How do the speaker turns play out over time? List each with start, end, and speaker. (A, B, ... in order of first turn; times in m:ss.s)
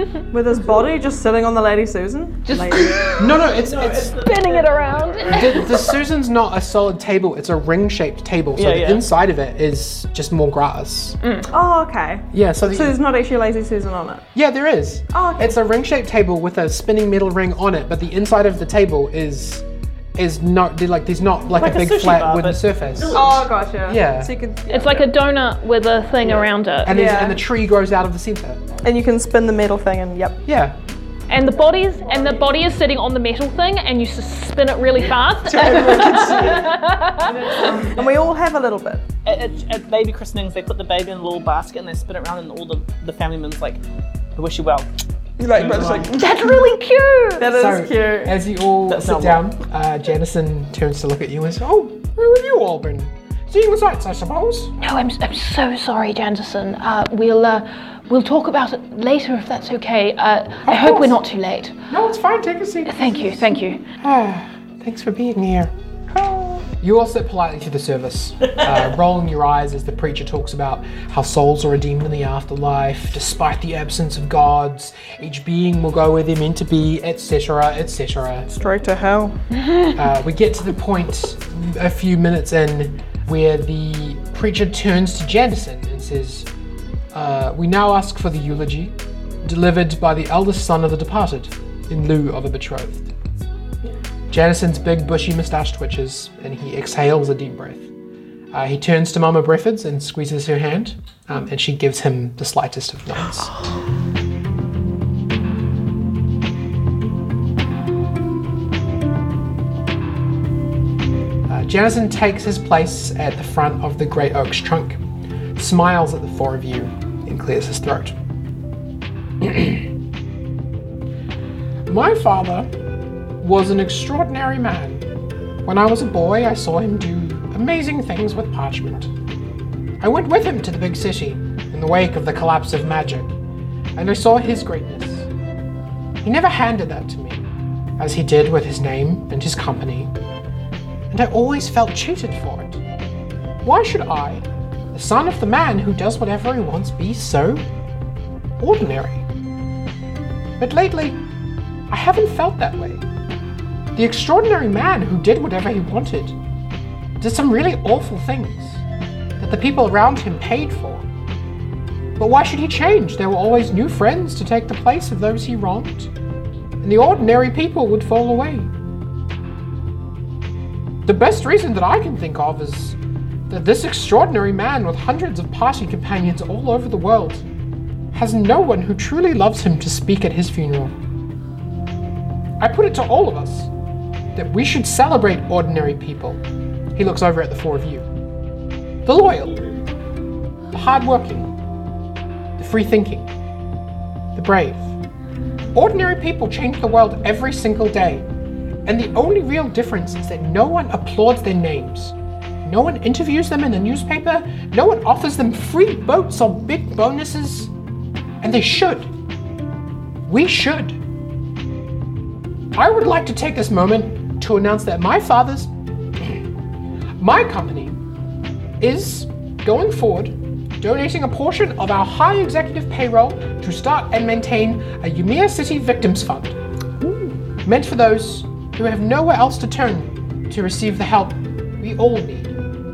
0:00.3-0:03.0 A
0:02.5-0:03.4 B
0:03.1-0:05.8 C
0:03.2-0:04.2 D
0:04.1-0:05.8 B
0:05.3-0:11.2 D
0:08.6-0:09.0 C
0:11.2-0:11.5 B
0:11.5-0:14.3 A
0:12.3-0:13.0 D
0:14.3-0:19.6 D
0:15.1-0:15.5 A
0:20.2-0:24.3 D
0:21.6-0:23.5 C
0:23.1-0:25.1 A
0:24.7-0:27.0 B
0:26.8-0:28.6 D
0:26.9-0:27.4 A
0:28.8-0:30.4 A
0:30.4-0:30.8 D
0:31.3-0:37.8 B
0:35.5-0:36.8 E
0:37.5-0:39.0 A
0:37.6-0:38.1 E
0:39.2-0:43.8 C
0:44.4-0:44.9 C
0:45.4-0:46.6 E
0:45.5-0:46.1 D
0:46.1-0:47.5 B
0:47.4-0:48.4 A
0:47.5-0:54.7 D
0:48.9-0:49.5 C
0:54.8-1:01.8 B
1:00.6-1:01.2 D
1:01.9-1:03.4 D
1:02.9-1:03.8 B
1:04.0-1:05.7 D
1:06.6-1:18.5 D
1:18.5-1:19.4 A
1:19.5-1:20.0 B
1:19.9-1:26.5 D
1:27.1-1:33.1 D
1:34.3-1:37.9 D
1:38.5-1:43.6 D
1:51.5-1:55.0 D
1:55.6-1:58.2 D
1:59.4-1:59.9 D
2:01.9-2:02.7 D
2:03.4-2:05.1 D
2:05.6-2:09.1 D
2:10.0-2:13.4 D
2:14.0-2:15.3 D
2:16.2-2:17.4 D
2:18.0-2:20.1 D
2:21.1-2:22.8 D
2:23.6-2:27.7 D
2:28.6-2:29.2 D
2:30.6-2:31.2 D
2:31.9-2:33.0 D
2:34.0-2:36.4 D
2:37.2-2:38.8 D
2:39.4-2:41.1 D
2:42.2-2:46.1 D
2:46.8-2:48.7 D
2:51.1-2:53.0 D
2:53.5-2:57.5 D
2:58.1-3:01.0 D
3:02.6-3:03.7 D
3:04.3-3:06.4 D
3:07.0-3:08.1 D
3:09.0-3:09.7 D
3:10.7-3:11.5 D
3:12.6-3:13.3 D
3:14.4-3:15.0 D
3:15.7-3:18.2 D
3:18.9-3:27.7 D
3:28.4-3:29.1 D
3:30.3-3:31.0 D
3:32.7-3:36.5 D
3:37.2-3:38.0 D
3:38.8-3:46.6 D
3:47.0-3:47.3 C
3:47.6-3:52.5 D